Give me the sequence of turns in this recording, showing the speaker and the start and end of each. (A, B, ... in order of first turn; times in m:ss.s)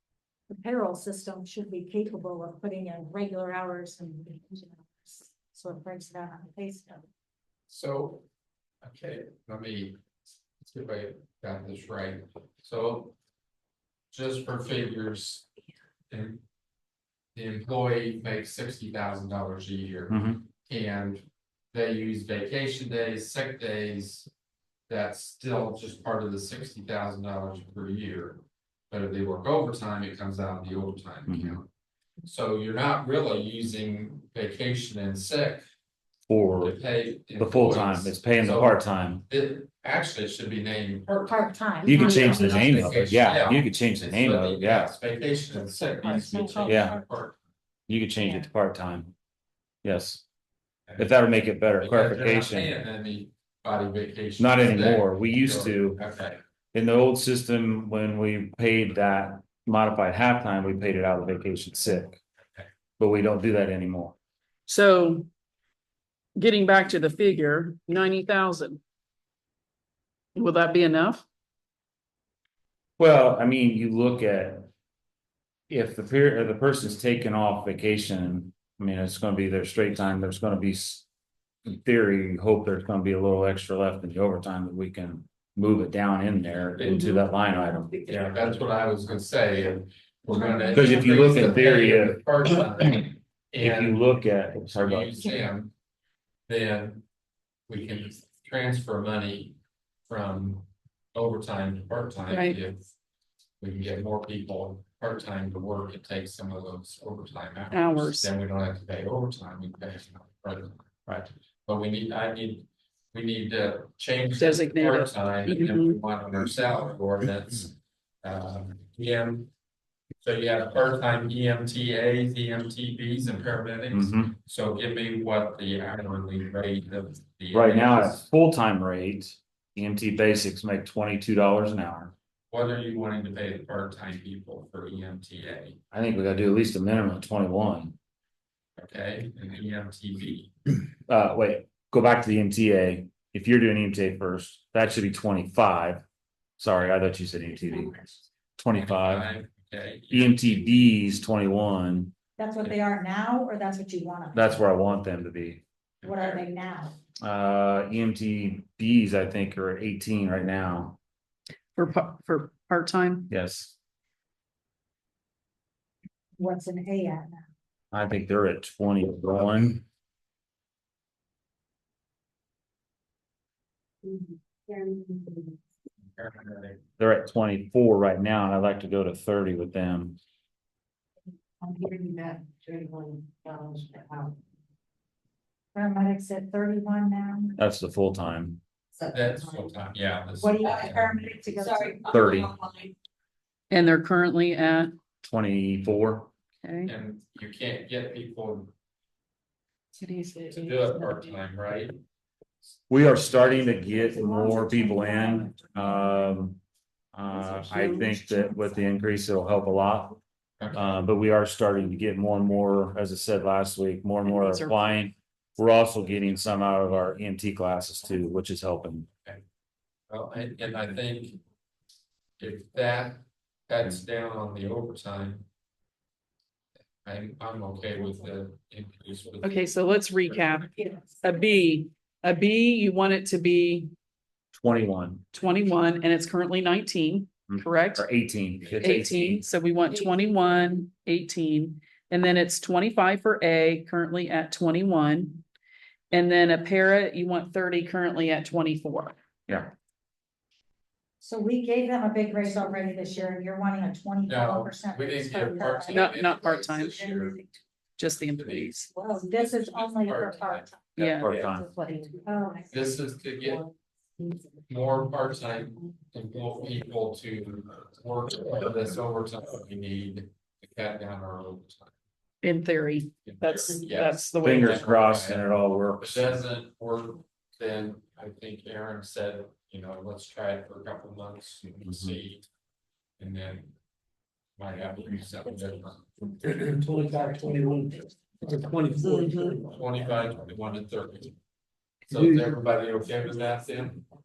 0:00.5-0:07.0 A
0:07.7-0:08.2 B
0:08.8-0:10.0 B
0:10.6-0:13.2 B
0:14.1-0:15.5 B
0:16.1-0:16.4 B
0:17.4-0:24.3 B
0:20.1-0:20.4 C
0:24.9-0:31.7 B
0:31.3-0:31.6 C
0:32.3-0:35.7 B
0:36.3-0:36.8 C
0:36.6-0:47.4 B
0:37.3-0:39.2 C
0:41.3-0:43.1 A
0:41.8-0:44.9 C
0:46.0-0:46.6 D
0:46.1-0:46.8 A
0:46.6-0:47.0 C
0:47.9-0:49.1 C
0:49.8-0:50.2 C
0:51.0-0:52.7 C
0:51.8-0:56.4 B
0:54.4-0:56.0 C
0:56.7-1:02.2 C
1:03.0-1:04.2 C
1:04.7-1:05.3 E
1:06.4-1:08.8 E
1:10.4-1:11.2 E
1:13.0-1:14.7 C
1:15.7-1:21.0 C
1:21.7-1:28.0 C
1:26.8-1:27.2 B
1:28.0-1:34.1 B
1:30.7-1:33.0 C
1:33.6-1:35.4 C
1:34.7-1:35.7 B
1:36.5-1:37.0 B
1:37.7-1:42.8 B
1:42.3-1:42.6 E
1:43.6-1:59.5 B
1:47.7-1:48.3 E
1:54.4-1:56.0 E
2:00.2-2:08.2 B
2:03.9-2:04.3 C
2:07.5-2:12.1 C
2:12.5-2:15.8 B
2:15.9-2:18.0 C
2:18.8-2:20.5 B
2:21.1-2:26.0 C
2:26.6-2:29.3 C
2:28.8-2:30.8 B
2:30.1-2:32.1 C
2:32.4-2:34.6 A
2:34.3-2:35.6 C
2:36.0-2:37.0 A
2:36.0-2:36.4 B
2:37.2-2:41.0 C
2:41.8-2:43.3 E
2:43.3-2:43.8 C
2:46.4-2:47.4 A
2:47.9-2:49.8 C
2:54.0-2:55.6 D
2:56.2-2:56.8 B
2:57.0-3:00.2 C
3:01.6-3:04.4 D
3:05.7-3:07.6 A
3:07.6-3:08.6 C
3:09.0-3:09.5 D
3:09.1-3:11.3 B
3:10.4-3:12.1 A
3:12.1-3:12.5 C
3:13.7-3:15.0 E
3:15.2-3:16.3 C
3:16.6-3:16.9 E
3:16.8-3:18.7 B
3:20.0-3:21.4 E
3:20.5-3:22.0 B
3:22.9-3:26.6 C
3:24.2-3:25.5 A
3:27.1-3:30.2 C
3:30.6-3:31.0 B
3:30.7-3:39.1 C
3:34.2-3:34.8 E
3:40.1-3:41.4 B
3:42.4-3:45.5 B
3:47.0-3:49.6 B
3:49.4-3:53.9 E
3:54.5-3:55.3 C
3:55.3-3:58.0 E
3:57.5-3:59.4 C
3:58.8-4:05.4 E
4:06.1-4:09.2 E
4:11.2-4:16.2 A
4:14.3-4:17.4 B
4:15.9-4:17.2 E
4:18.0-4:18.9 E
4:18.4-4:20.7 B
4:19.0-4:22.7 A
4:21.0-4:21.3 E
4:21.0-4:21.7 C
4:22.7-4:23.6 B
4:24.7-4:31.9 B
4:32.4-4:34.9 E
4:33.3-4:35.4 B
4:34.4-4:36.4 C
4:36.0-4:42.5 B
4:43.2-4:43.7 B
4:44.6-4:46.2 B
4:46.4-4:49.8 F
4:49.6-4:51.4 B
4:52.1-4:54.0 B
4:52.1-4:52.6 F